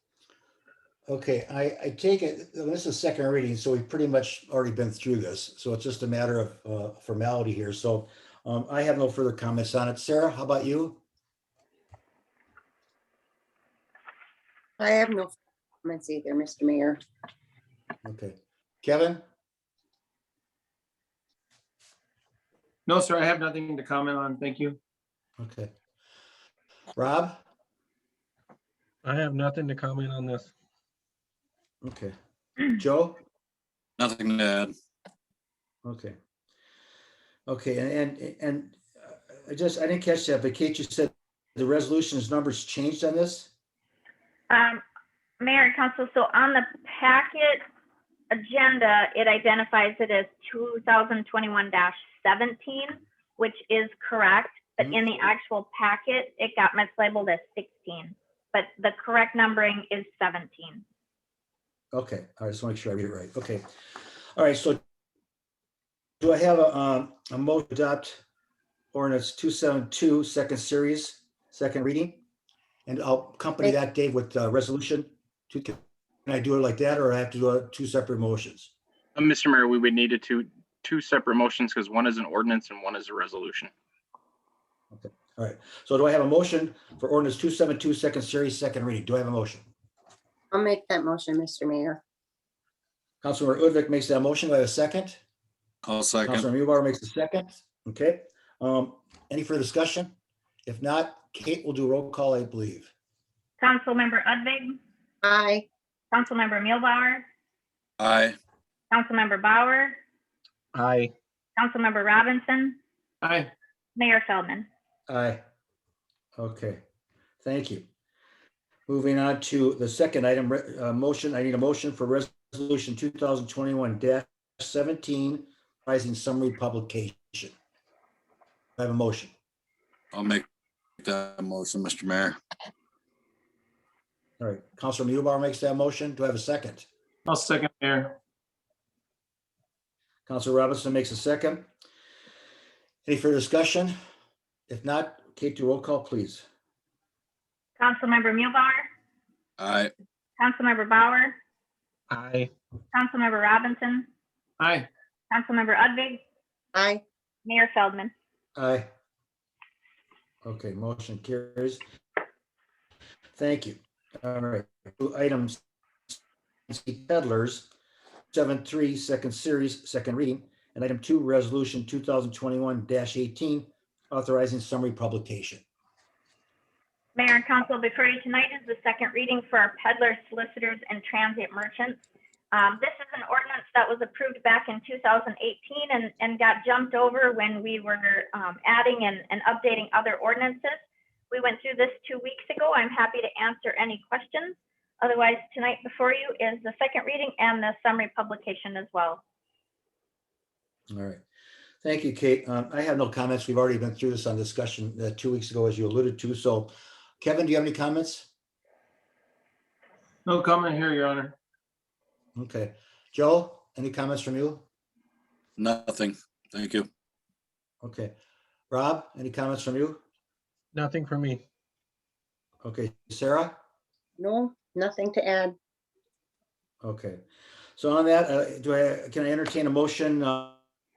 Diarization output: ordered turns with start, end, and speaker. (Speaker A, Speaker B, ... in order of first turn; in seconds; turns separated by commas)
Speaker A: 1.1-11.0, Speaker B: 14.8-17.0, Speaker A: 18.0-19.2, Speaker C: 22.9-24.8, Speaker A: 25.4-25.7, Speaker A: 26.9-27.4, Speaker D: 29.0-30.5, Speaker A: 31.8-32.1, Speaker A: 32.7-33.2, Speaker E: 34.0-34.7, Speaker A: 35.8-36.2, Speaker A: 37.5-43.5, Speaker F: 44.5-44.8, Speaker F: 45.4-47.6, Speaker F: 48.3-60.8, Speaker A: 61.9-63.6, Speaker A: 64.3-64.8, Speaker A: 66.2-68.2, Speaker A: 68.9-72.2, Speaker A: 72.9-78.7, Speaker G: 79.2-83.7, Speaker A: 84.9-89.6, Speaker B: 90.5-92.0, Speaker A: 93.2-95.2, Speaker E: 95.8-96.5, Speaker A: 96.2-100.1, Speaker A: 100.7-102.9, Speaker F: 103.6-104.8, Speaker B: 105.2-105.7, Speaker F: 106.1-107.2, Speaker E: 108.0-108.4, Speaker F: 108.9-110.0, Speaker D: 110.7-111.1, Speaker F: 111.6-112.8, Speaker C: 113.2-113.5, Speaker F: 114.0-114.7, Speaker A: 115.1-115.4, Speaker A: 116.4-116.8, Speaker A: 117.4-117.8, Speaker A: 118.9-127.5, Speaker A: 128.8-129.3, Speaker E: 130.1-130.4, Speaker E: 131.0-132.4, Speaker A: 134.4-136.9, Speaker C: 137.3-138.2, Speaker A: 140.3-141.7, Speaker A: 143.1-143.9, Speaker A: 144.7-146.4, Speaker F: 147.8-148.9, Speaker E: 149.6-149.9, Speaker F: 150.4-151.4, Speaker D: 152.1-152.5, Speaker F: 152.9-154.1, Speaker C: 154.6-154.9, Speaker F: 155.3-156.2, Speaker B: 156.7-157.0, Speaker F: 157.4-158.1, Speaker A: 158.6-158.9, Speaker A: 160.4-161.8, Speaker A: 163.3-167.7, Speaker A: 168.3-175.6, Speaker F: 177.2-182.0, Speaker F: 182.5-199.2, Speaker A: 200.9-201.2, Speaker A: 201.8-208.3, Speaker C: 210.2-211.3, Speaker A: 212.3-214.7, Speaker E: 215.6-216.9, Speaker A: 217.8-218.1, Speaker A: 218.7-220.0, Speaker D: 220.7-221.4, Speaker A: 222.6-223.6, Speaker B: 224.2-225.5, Speaker A: 226.8-227.2, Speaker A: 227.8-230.6